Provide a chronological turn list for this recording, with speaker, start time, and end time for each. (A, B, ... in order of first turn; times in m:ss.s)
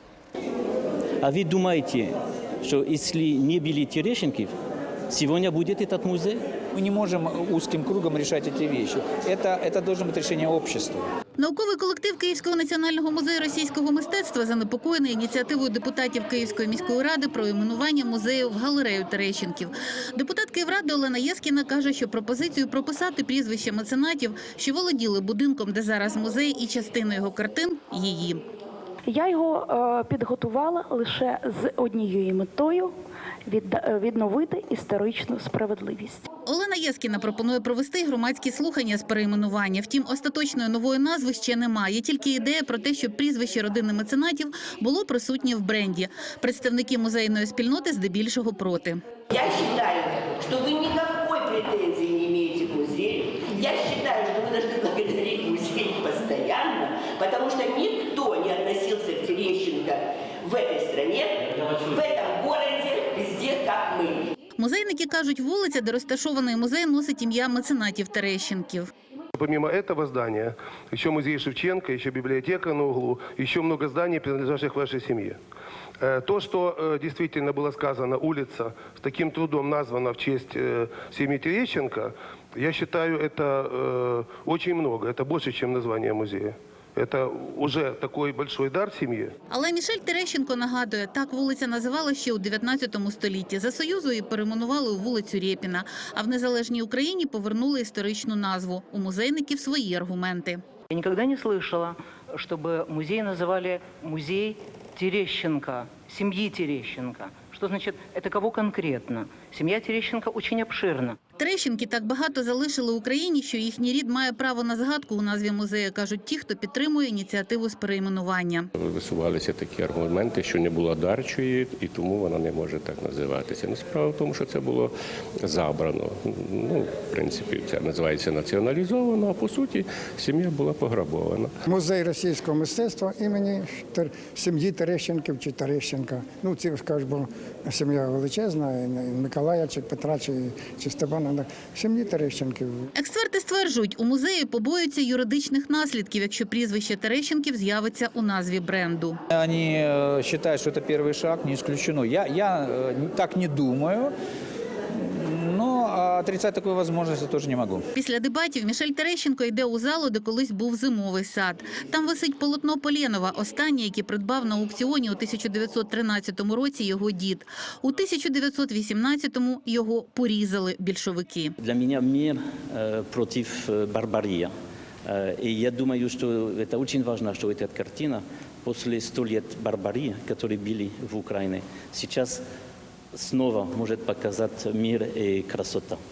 0:01.2-0:04.5 A
0:05.1-0:06.4 A
0:06.8-0:11.0 B
0:11.4-0:28.4 C
0:29.1-0:32.9 D
0:33.4-0:36.2 D
0:36.4-0:49.0 C
0:49.3-1:04.3 E
1:04.6-1:08.9 C
1:09.4-1:15.4 F
1:16.0-1:29.3 F
1:29.5-1:40.6 C
1:40.9-1:51.2 G
1:51.4-1:58.7 C
1:58.8-2:04.9 H
2:05.4-2:11.5 H
2:11.7-2:22.8 I
2:22.9-2:29.2 C
2:29.3-2:34.1 B
2:34.9-2:37.8 B
2:37.9-2:51.5 C
2:51.6-2:54.5 A
2:55.0-3:02.4 A
3:03.1-3:06.0 A